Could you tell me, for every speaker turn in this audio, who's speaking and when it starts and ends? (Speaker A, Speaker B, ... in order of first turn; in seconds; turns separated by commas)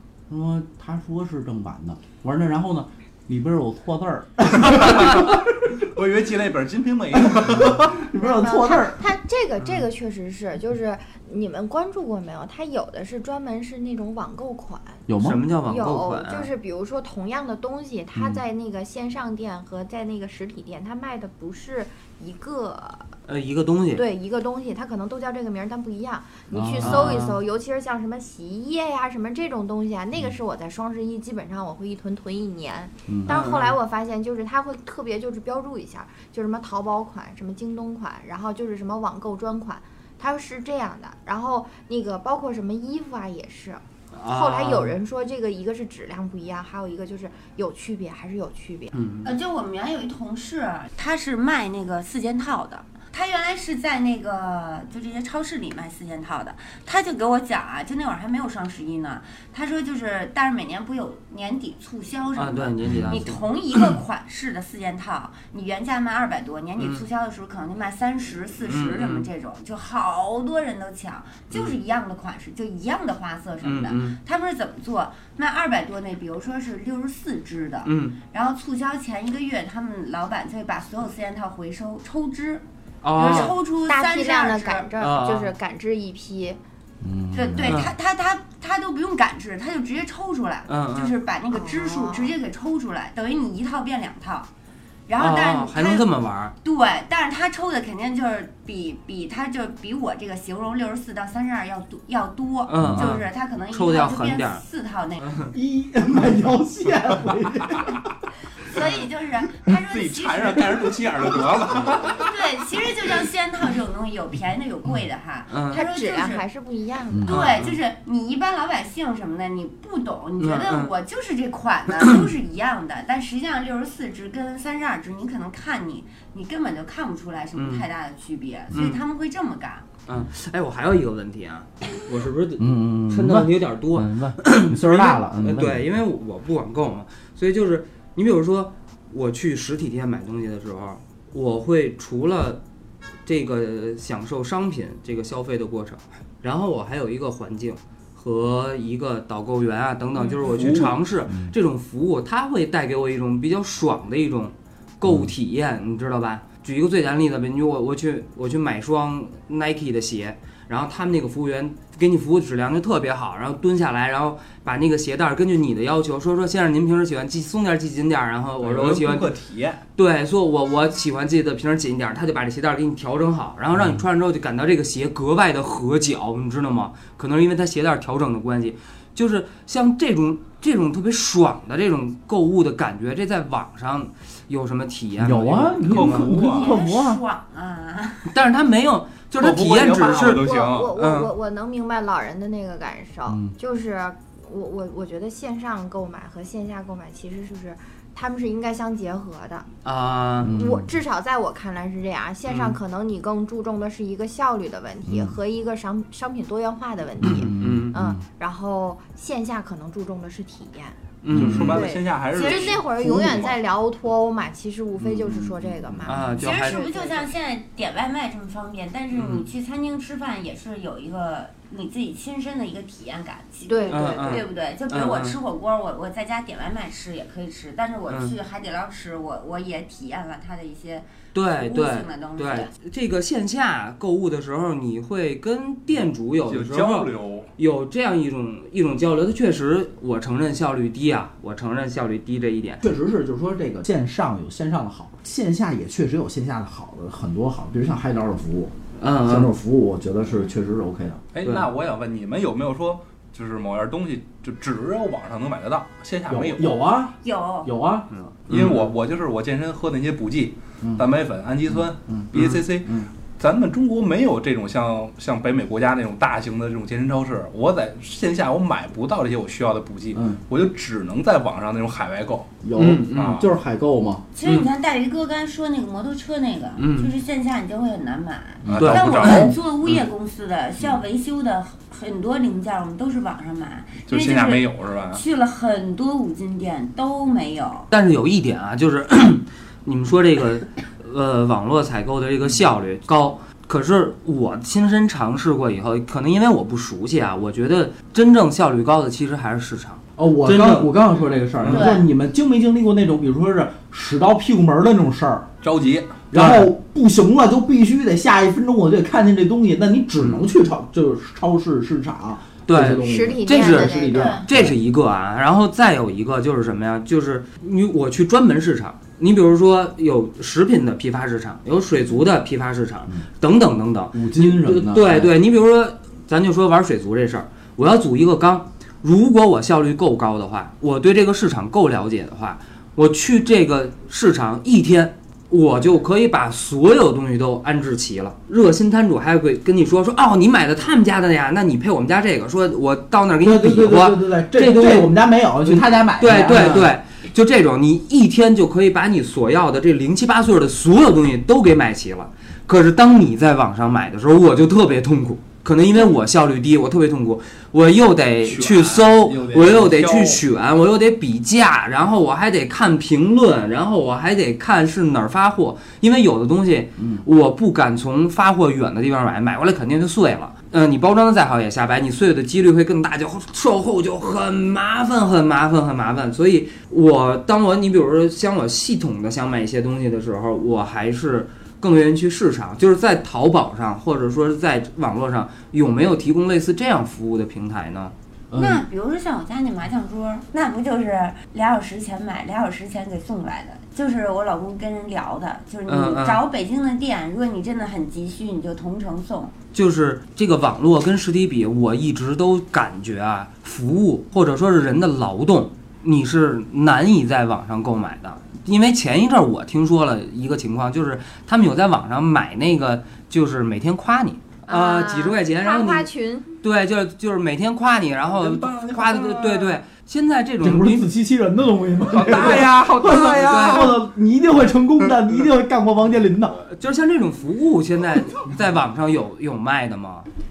Speaker A: 0.3-5.7, Speaker B: 4.6-5.3, Speaker B: 5.8-8.0, Speaker A: 7.1-9.0, Speaker C: 8.1-15.0, Speaker D: 9.6-9.8, Speaker A: 15.1-15.4, Speaker D: 15.2-16.5, Speaker C: 15.6-23.1, Speaker A: 18.1-18.4, Speaker D: 23.3-24.1, Speaker C: 23.9-48.9, Speaker A: 26.5-27.2, Speaker D: 26.8-27.4, Speaker A: 33.1-33.4, Speaker D: 33.3-33.8, Speaker D: 44.1-45.0, Speaker D: 48.9-49.3, Speaker E: 49.2-84.9, Speaker D: 62.4-63.8, Speaker D: 66.8-67.0, Speaker D: 68.6-69.3, Speaker D: 73.6-74.2, Speaker D: 77.8-78.1, Speaker D: 83.0-83.5, Speaker C: 83.2-86.6, Speaker D: 85.0-85.5, Speaker A: 87.0-87.9, Speaker E: 87.3-94.5, Speaker D: 87.6-87.9, Speaker D: 90.7-91.1, Speaker C: 91.5-92.3, Speaker E: 95.1-96.1, Speaker D: 95.2-96.5, Speaker E: 96.6-105.5, Speaker D: 102.7-104.6, Speaker A: 102.8-103.1, Speaker A: 105.5-108.0, Speaker E: 108.6-116.4, Speaker B: 109.7-112.5, Speaker D: 115.5-115.8, Speaker C: 115.7-117.4, Speaker A: 117.1-117.4, Speaker E: 117.2-129.8, Speaker D: 117.3-117.8, Speaker D: 120.4-120.9, Speaker D: 127.5-127.8, Speaker D: 128.7-129.0, Speaker D: 130.1-142.6, Speaker A: 132.6-135.9, Speaker D: 143.2-169.3, Speaker B: 150.4-151.0, Speaker A: 151.3-151.5, Speaker A: 155.0-155.3, Speaker B: 168.6-169.8, Speaker D: 169.9-186.3, Speaker A: 173.8-174.0, Speaker A: 185.2-187.2, Speaker B: 185.8-186.7, Speaker E: 186.2-188.3, Speaker D: 188.3-190.4, Speaker B: 189.3-191.0, Speaker C: 190.1-199.7, Speaker D: 190.9-191.3, Speaker A: 193.3-193.5, Speaker D: 199.8-200.6, Speaker A: 200.4-200.9, Speaker C: 200.4-211.0, Speaker D: 202.4-202.8, Speaker A: 205.1-205.4, Speaker A: 207.2-208.2, Speaker D: 207.2-207.9, Speaker D: 211.2-211.8, Speaker A: 211.3-211.9, Speaker B: 211.3-213.6, Speaker C: 211.6-217.3, Speaker E: 212.3-212.8, Speaker A: 215.0-216.4, Speaker D: 216.1-216.8, Speaker E: 216.4-232.7, Speaker D: 219.1-219.4, Speaker C: 223.7-224.4, Speaker D: 223.9-225.3, Speaker D: 228.1-228.3, Speaker D: 231.3-242.8, Speaker B: 236.4-237.5, Speaker A: 242.8-251.2, Speaker D: 249.0-249.5, Speaker B: 251.3-256.8, Speaker D: 251.4-251.7, Speaker A: 256.3-258.1, Speaker E: 257.2-257.7, Speaker D: 258.3-258.9, Speaker B: 258.5-272.5, Speaker A: 261.7-262.3, Speaker A: 270.1-270.4, Speaker A: 272.6-274.2, Speaker D: 272.8-273.4, Speaker B: 273.1-273.4, Speaker E: 274.3-287.9, Speaker D: 274.4-274.7, Speaker D: 276.8-277.1, Speaker B: 278.6-279.5, Speaker D: 278.7-279.5, Speaker B: 284.1-285.2, Speaker D: 287.9-300.9, Speaker A: 300.2-305.5, Speaker D: 301.6-301.9, Speaker E: 301.7-302.0, Speaker B: 305.6-306.2, Speaker A: 306.3-314.8, Speaker D: 306.3-306.7, Speaker D: 310.2-310.4, Speaker D: 312.7-345.1, Speaker C: 313.0-314.4, Speaker E: 314.1-314.4, Speaker A: 324.1-325.3, Speaker A: 343.4-346.9, Speaker D: 345.6-388.1, Speaker B: 358.4-360.4, Speaker A: 367.0-367.2, Speaker A: 388.5-388.8, Speaker E: 388.5-399.5, Speaker D: 395.9-396.4, Speaker D: 399.7-416.1, Speaker C: 414.7-416.5, Speaker D: 416.6-421.1, Speaker B: 418.3-419.8, Speaker A: 420.6-426.6, Speaker B: 422.0-424.0, Speaker D: 422.3-423.9, Speaker D: 426.7-430.3